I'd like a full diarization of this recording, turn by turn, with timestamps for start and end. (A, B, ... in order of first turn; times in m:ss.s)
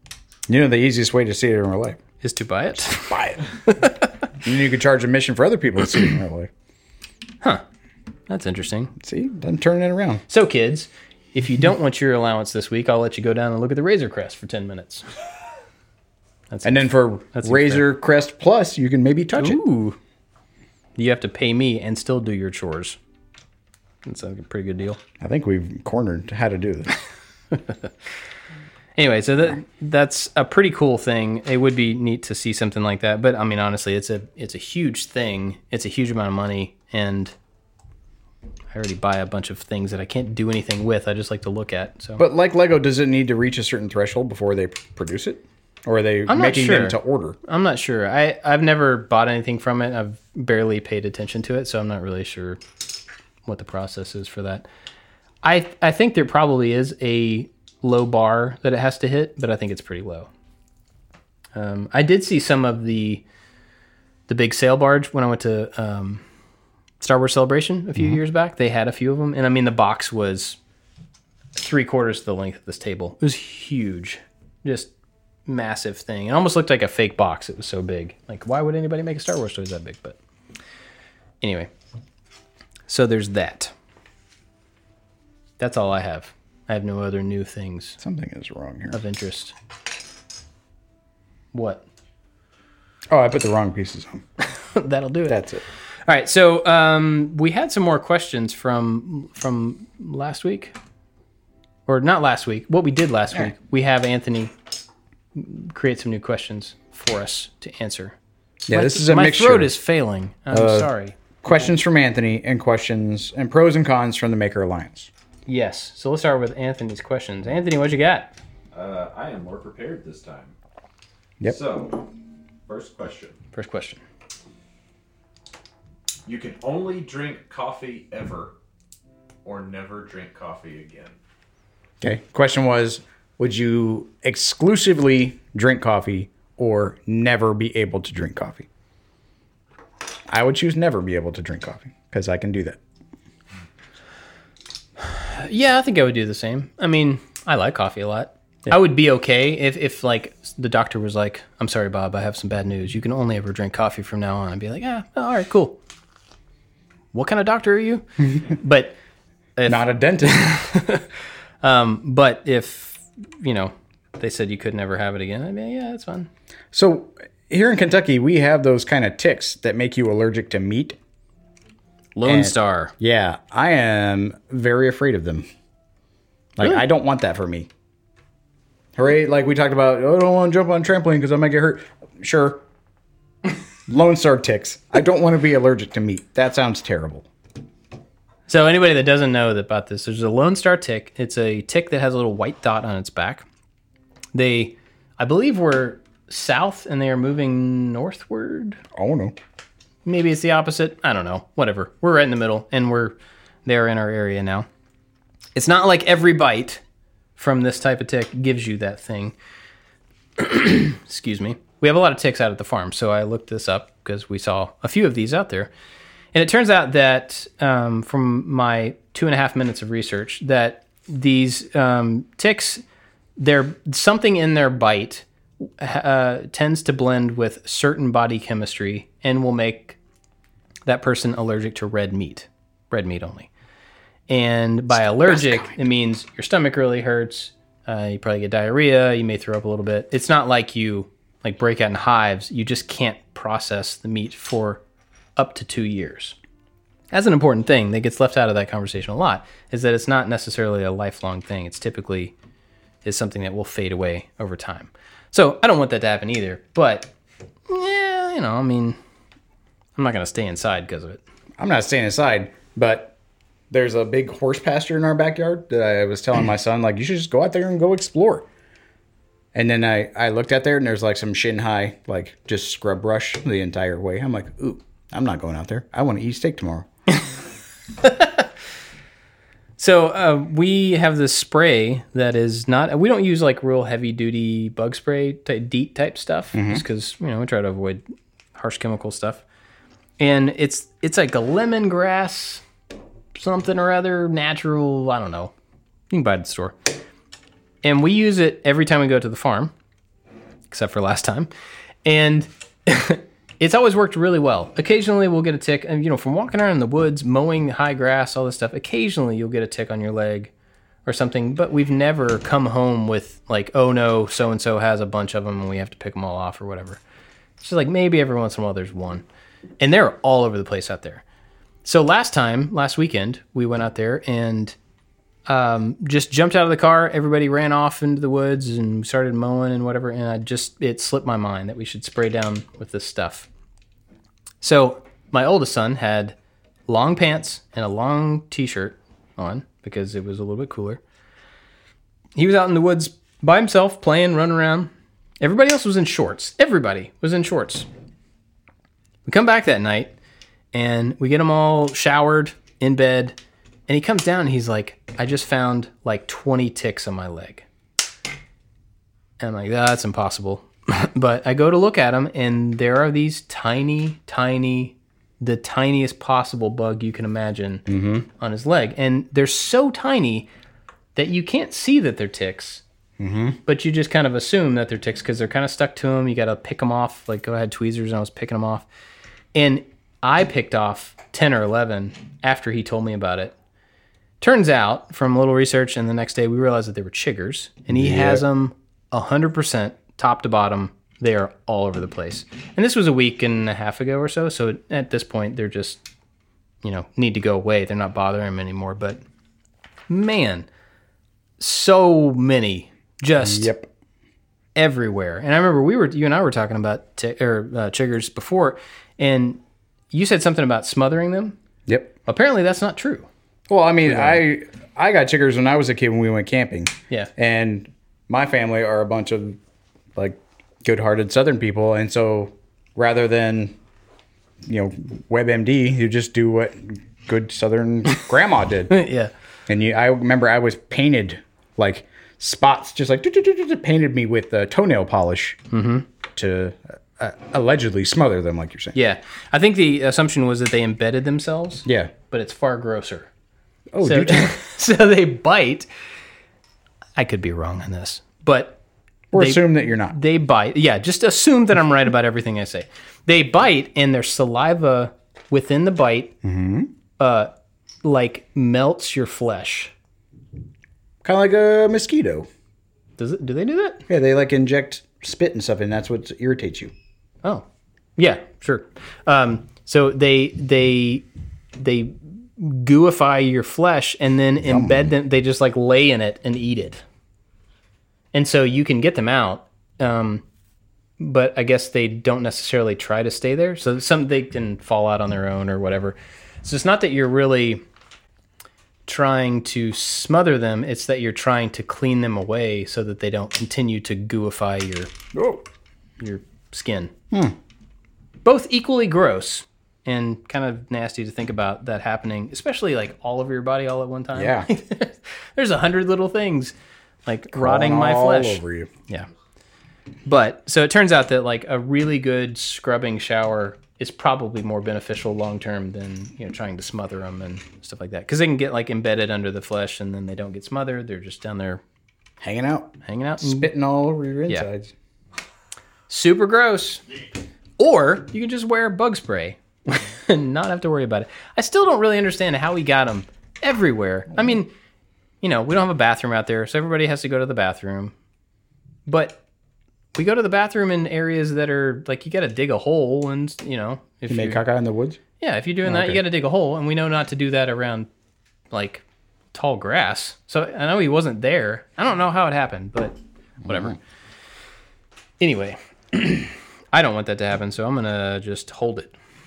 0:00.5-0:02.0 A
0:02.2-0:04.1 B
0:03.0-0:03.4 A
0:04.4-0:06.5 A
0:08.3-0:08.9 B
0:09.0-0:10.2 A
0:10.3-0:15.1 B
0:16.5-0:17.8 B
0:16.6-0:19.6 A
0:19.4-0:20.0 B
0:21.0-0:23.0 B
0:24.0-0:25.0 B
0:25.2-0:26.9 A
0:27.5-0:27.9 B
0:29.0-0:37.3 B
0:38.7-0:42.2 B
0:42.2-0:47.4 A
0:46.3-0:52.6 B
0:53.4-0:54.6 B
0:55.4-1:00.3 B
1:01.5-1:03.2 B
1:04.3-1:06.2 B
1:07.0-1:10.6 B
1:11.6-1:14.9 B
1:15.4-1:20.2 B
1:21.4-1:21.7 B
1:22.9-1:23.7 B
1:25.6-1:28.0 B
1:28.0-1:29.0 A
1:28.9-1:29.5 B
1:31.5-1:31.8 B
1:33.1-1:34.2 A
1:34.4-1:40.7 B
1:35.3-1:35.6 A
1:41.9-1:44.5 B
1:45.3-1:48.2 B
1:48.7-1:49.7 A
1:48.7-1:51.2 B
1:50.5-1:50.9 A
1:51.4-1:55.1 A
1:55.5-1:58.3 B
1:58.7-2:00.5 C
2:01.4-2:02.1 C
2:02.6-2:03.4 C
2:03.5-2:04.0 B
2:06.2-2:08.5 C
2:09.4-2:11.2 C
2:12.0-2:18.7 A
2:20.3-2:22.8 A
2:25.0-2:35.8 B
2:37.1-2:39.0 B
2:39.6-2:41.1 B
2:39.7-2:40.6 A
2:41.6-2:46.3 B
2:46.7-2:51.0 A
2:52.1-2:52.9 B
2:52.2-2:55.4 A
2:56.6-2:57.7 A
2:59.0-3:02.6 A
3:03.9-3:07.3 A
3:08.5-3:13.5 B
3:14.3-3:18.8 B
3:18.9-3:19.4 A
3:20.0-3:24.7 B
3:25.5-3:26.8 B
3:27.4-3:29.4 B
3:30.4-3:35.7 B
3:36.3-3:42.8 B
3:43.4-3:50.0 B
3:50.8-3:53.5 B
3:54.3-4:04.8 B
3:55.0-3:55.8 A
4:05.4-4:06.4 B
4:07.1-4:12.3 B
4:13.0-4:17.1 B
4:17.7-4:19.0 B
4:20.0-4:21.2 B
4:21.6-4:23.1 A
4:23.7-4:28.5 A
4:29.5-4:36.9 A
4:38.0-4:38.5 B
4:39.8-4:48.0 B
4:46.5-4:46.8 A
4:48.5-4:49.4 B
4:50.2-4:52.6 B
4:53.3-4:55.5 B
4:56.1-4:56.8 B
4:57.8-4:59.7 B
5:00.7-5:01.5 B
5:02.0-5:10.5 B
5:11.0-5:17.0 B
5:17.6-5:19.2 B
5:19.8-5:21.2 B
5:21.8-5:24.7 B
5:25.5-5:33.5 B
5:34.6-5:36.3 B
5:36.9-5:41.0 B
5:42.3-5:47.9 B
5:49.2-5:50.1 B
5:50.7-5:53.4 B
5:53.9-5:57.6 B
5:59.4-6:10.5 B
6:07.9-6:08.2 A
6:11.1-6:12.8 B
6:13.2-6:13.6 A
6:13.6-6:18.8 B
6:19.5-6:23.5 B
6:24.4-6:36.0 B
6:27.9-6:28.4 A
6:36.8-6:39.2 B
6:40.1-6:40.7 B
6:41.6-6:43.7 B
6:43.4-6:43.9 A
6:44.8-6:49.6 B
6:50.1-6:51.6 B
6:51.9-6:52.1 A
6:52.2-6:53.3 B
6:53.7-6:59.6 A
6:54.0-6:54.4 B
7:00.1-7:03.8 A
7:04.6-7:08.9 A
7:08.9-7:09.3 B
7:09.7-7:15.6 A
7:15.7-7:16.0 B
7:16.3-7:18.9 A
7:18.9-7:23.3 B
7:21.8-7:22.1 A
7:23.9-7:24.6 A
7:24.0-7:25.9 B
7:27.2-7:28.8 B
7:29.3-7:30.2 A
7:29.3-7:36.4 B
7:36.4-7:36.9 A
7:37.2-7:39.9 B
7:41.2-7:42.5 A
7:43.2-7:44.0 B
7:44.1-7:46.9 A
7:48.2-7:57.0 B
7:54.6-7:55.1 A
7:58.3-8:00.4 B
8:01.2-8:07.8 B
8:09.0-8:15.1 B
8:15.3-8:15.6 A
8:16.2-8:17.1 B
8:17.3-8:17.6 A
8:18.4-8:26.7 B
8:24.3-8:24.7 A
8:27.2-8:29.3 B
8:27.5-8:28.9 A
8:30.2-8:41.8 B
8:42.4-8:44.9 A
8:43.0-8:43.7 B
8:46.1-8:47.0 B
8:47.8-8:54.7 B
8:55.4-8:58.1 B
8:59.0-8:59.4 B
9:00.1-9:04.6 B
9:04.3-9:05.2 A
9:05.4-9:08.1 B
9:05.8-9:06.2 A
9:08.7-9:14.0 B
9:13.6-9:13.9 A
9:15.4-9:19.1 B